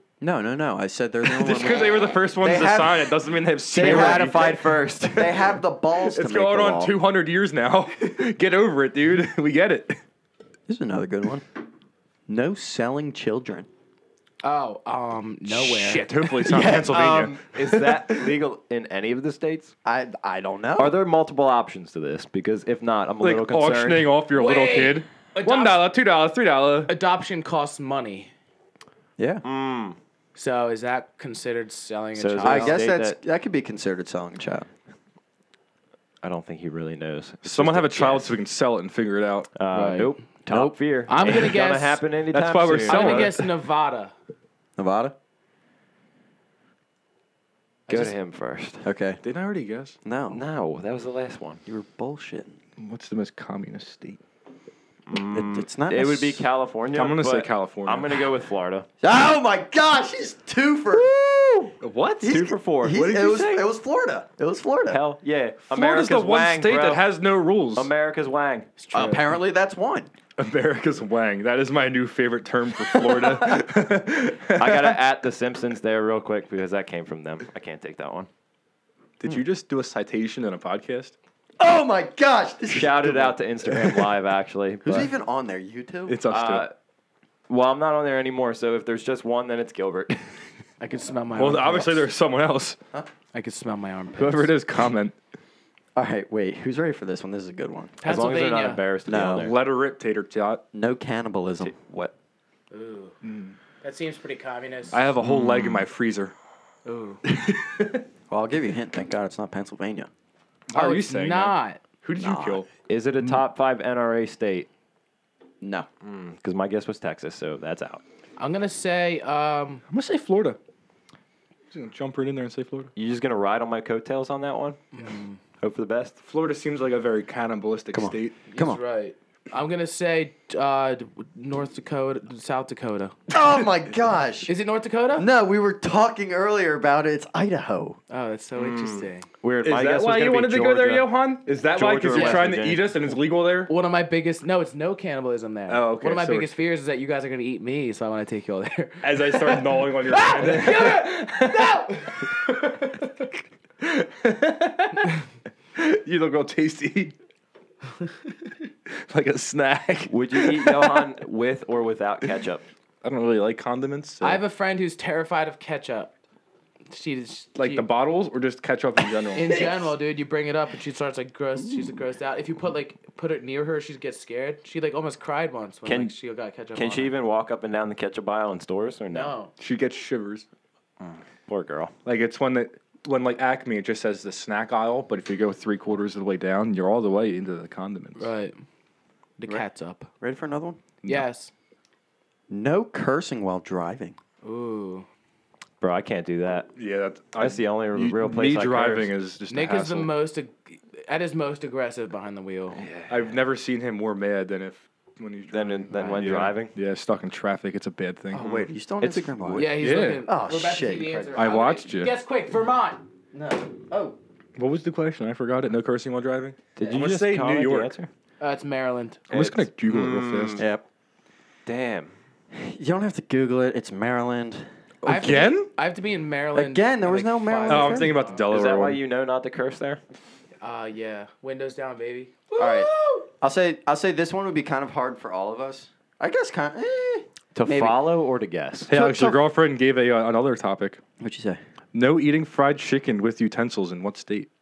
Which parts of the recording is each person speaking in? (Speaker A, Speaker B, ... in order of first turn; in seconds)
Speaker A: 0.2-7.0, 10.7-11.4, 12.3-13.7, 16.4-17.2, 19.8-21.0, 29.2-29.4, 32.4-34.7, 40.5-40.8, 44.8-45.1, 48.8-49.2, 50.0-50.4, 51.6-52.5, 55.3-56.4, 59.0-65.0, 68.9-70.1, 73.0-73.6, 81.6-84.0, 84.8-86.2, 96.0-97.9, 99.1-99.5, 100.7-101.8, 108.3-110.1, 112.2-112.6, 115.6-115.9, 127.9-128.8, 133.3-134.5, 135.1-138.0, 190.2-190.8, 192.5-194.2, 208.3-211.6, 213.3-214.2, 220.6-220.8, 222.5-225.4, 226.5-228.1, 232.6-238.0, 238.9-239.5, 241.2-241.6
Speaker B: 1.2-5.4, 6.0-10.0, 15.5-18.3, 23.2-26.9, 37.4-39.5, 42.3-43.5, 49.2-50.0, 52.8-54.2, 56.9-58.2, 61.8-62.5, 65.7-67.9, 70.4-75.0, 79.2-81.1, 86.1-86.7, 91.3-92.8, 94.2-95.1, 99.2-100.6, 103.2-103.5, 104.9-106.3, 107.3-108.0, 110.7-112.7, 119.9-120.6, 121.7-122.9, 126.2-128.4, 139.6-143.7, 145.7-146.5, 149.0-153.0, 153.8-155.2, 155.8-157.1, 158.9-161.1, 163.0-164.4, 167.6-169.9, 179.6-180.4, 182.0-188.3, 196.8-200.1, 203.1-208.7, 209.8-210.2, 211.3-212.1, 214.6-217.9, 219.3-220.6, 225.1-225.7, 227.7-229.0, 238.9-241.0, 241.9-244.5
Speaker C: 3.7-5.4, 16.5-19.7, 20.8-24.1, 29.4-30.0, 32.1-33.2, 36.2-38.4, 39.5-43.4, 47.9-48.9, 50.3-51.6, 55.1-58.9, 62.2-63.6, 64.9-67.1, 67.7-68.7, 74.5-78.3, 82.7-85.1, 86.3-86.7, 87.5-90.4, 98.0-99.5, 101.6-102.1, 105.2-105.8, 112.9-114.7, 116.0-118.0, 123.0-124.8, 125.6-126.2, 138.6-141.1, 141.7-143.0, 160.1-162.6, 175.8-176.1, 176.7-179.3, 181.0-181.9, 195.8-196.7, 197.4-199.1, 202.7-203.4, 205.5-206.7, 209.0-209.8, 216.8-218.1, 219.3-220.7, 221.7-222.1, 228.5-230.0, 237.5-238.9
Speaker D: 14.4-16.3, 24.3-25.8, 26.9-28.3, 30.3-32.8, 39.7-40.2, 41.1-42.0, 42.8-44.1, 47.9-48.1, 68.8-69.3, 90.8-92.1, 93.3-94.6, 98.0-98.8, 102.7-103.2, 103.8-105.0, 106.8-107.2, 110.7-111.8, 118.4-119.8, 124.9-125.4, 128.5-133.2, 134.5-135.3, 138.1-139.3, 142.1-142.5, 143.7-152.5, 164.2-166.1, 166.9-167.9, 169.3-177.1, 179.1-179.5, 188.2-188.6, 189.4-190.1, 191.0-191.5, 194.4-195.1, 199.5-202.8, 205.9-206.3, 209.5-213.0, 218.4-219.3, 225.0-228.4, 230.6-233.2